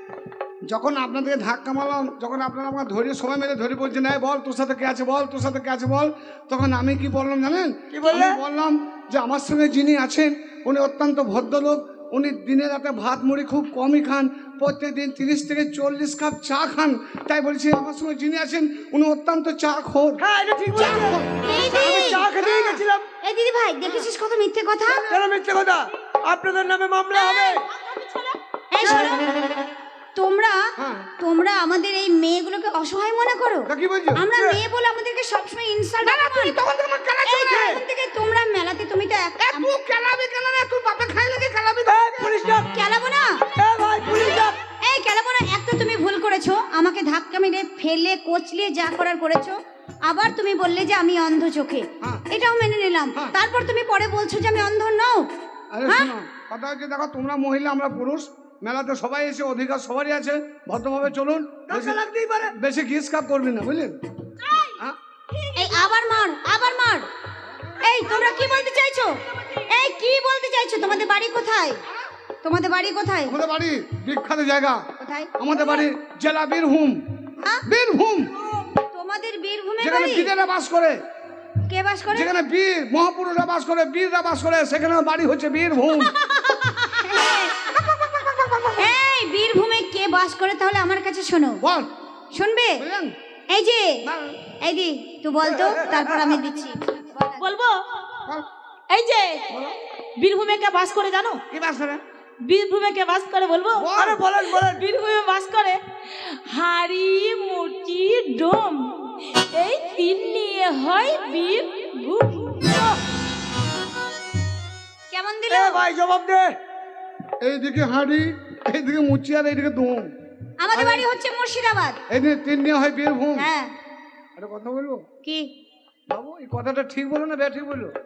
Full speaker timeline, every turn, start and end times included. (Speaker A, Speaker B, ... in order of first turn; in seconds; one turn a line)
Speaker A: 0.7-20.2
Speaker B: 7.9-8.4
Speaker B: 20.2-23.1
Speaker A: 20.8-21.4
Speaker C: 20.8-22.2
Speaker A: 22.3-22.8
Speaker C: 23.2-25.0
Speaker A: 24.9-25.2
Speaker B: 25.1-27.7
Speaker D: 27.1-28.4
Speaker C: 28.7-29.3
Speaker C: 30.1-36.6
Speaker A: 30.8-31.1
Speaker A: 33.7-34.2
Speaker B: 34.4-34.6
Speaker A: 36.0-37.6
Speaker C: 37.2-39.7
Speaker B: 37.4-37.8
Speaker A: 39.4-42.4
Speaker B: 41.9-42.7
Speaker C: 42.7-43.4
Speaker B: 43.6-44.6
Speaker C: 44.8-55.3
Speaker A: 55.7-62.0
Speaker C: 55.9-56.1
Speaker B: 61.7-62.5
Speaker A: 62.5-64.0
Speaker D: 64.4-64.8
Speaker D: 65.3-66.0
Speaker C: 65.5-67.1
Speaker C: 67.8-71.8
Speaker D: 68.2-68.6
Speaker C: 72.4-73.4
Speaker A: 73.3-74.8
Speaker C: 75.0-75.3
Speaker A: 75.4-78.3
Speaker C: 78.9-80.3
Speaker A: 79.8-81.0
Speaker C: 81.7-82.3
Speaker A: 82.1-86.1
Speaker C: 86.8-87.5
Speaker A: 87.6-89.0
Speaker C: 88.8-91.6
Speaker A: 91.6-91.9
Speaker C: 92.3-92.8
Speaker A: 92.8-93.1
Speaker C: 93.5-94.0
Speaker A: 94.0-94.4
Speaker C: 94.6-97.5
Speaker B: 95.6-96.3
Speaker D: 97.4-97.8
Speaker D: 98.9-99.5
Speaker A: 99.5-99.8
Speaker D: 100.2-101.4
Speaker A: 101.5-102.0
Speaker D: 102.4-103.9
Speaker A: 103.7-104.2
Speaker B: 104.0-104.8
Speaker D: 104.4-113.0
Speaker C: 115.1-115.9
Speaker B: 115.5-116.6
Speaker A: 117.4-120.1
Speaker C: 120.6-122.0
Speaker A: 120.7-121.1
Speaker A: 122.1-123.5
Speaker C: 123.4-123.7
Speaker A: 124.4-125.0
Speaker C: 125.2-125.5
Speaker A: 126.1-127.9